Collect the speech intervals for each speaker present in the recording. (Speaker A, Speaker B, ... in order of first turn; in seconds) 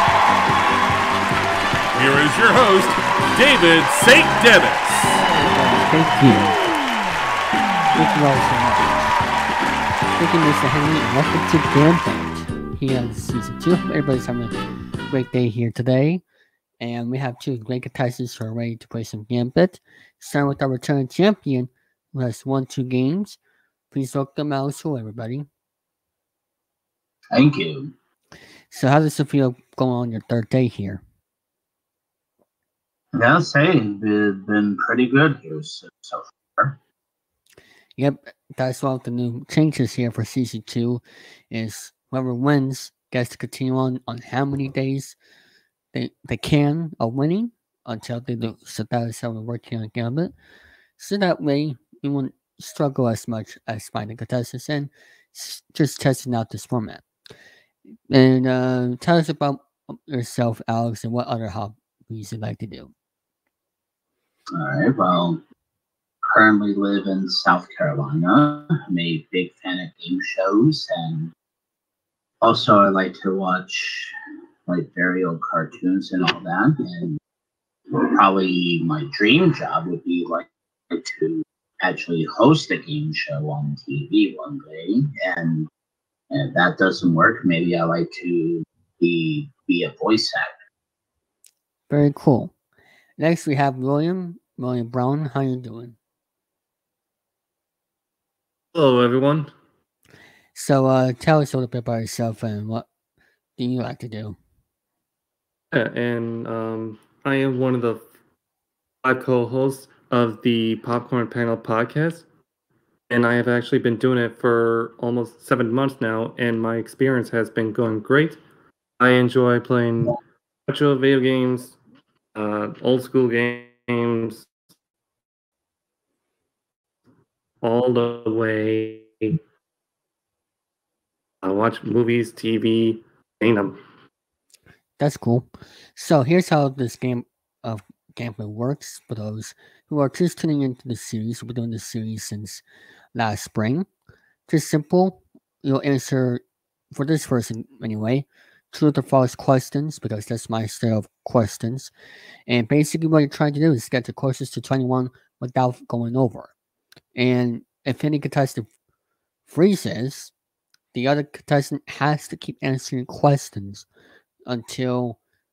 Speaker A: 1.9-5.2
Speaker B: 5.4-6.5, 7.9-9.1, 10.2-14.6, 15.1-16.2, 16.8-23.4, 23.9-25.5, 28.7-31.0, 38.0-45.2, 45.9-50.3, 51.0-57.0, 58.1-62.9, 91.9-92.5, 93.2-96.0, 100.5-102.8, 103.6-104.4, 135.0-142.6, 143.1-143.9, 144.5-151.9, 152.5-156.5, 157.2-158.7, 159.5-160.3, 160.9-163.8, 164.5-165.2
Speaker C: 27.3-27.9, 33.1-36.8, 64.5-65.4, 66.3-71.3, 72.4-74.1, 74.7-77.2, 77.9-85.7, 86.3-90.5
Speaker D: 98.7-99.5, 105.7-108.0, 109.0-112.2, 113.1-118.4, 119.0-121.8, 122.3-124.5, 127.6-129.4, 131.4-133.8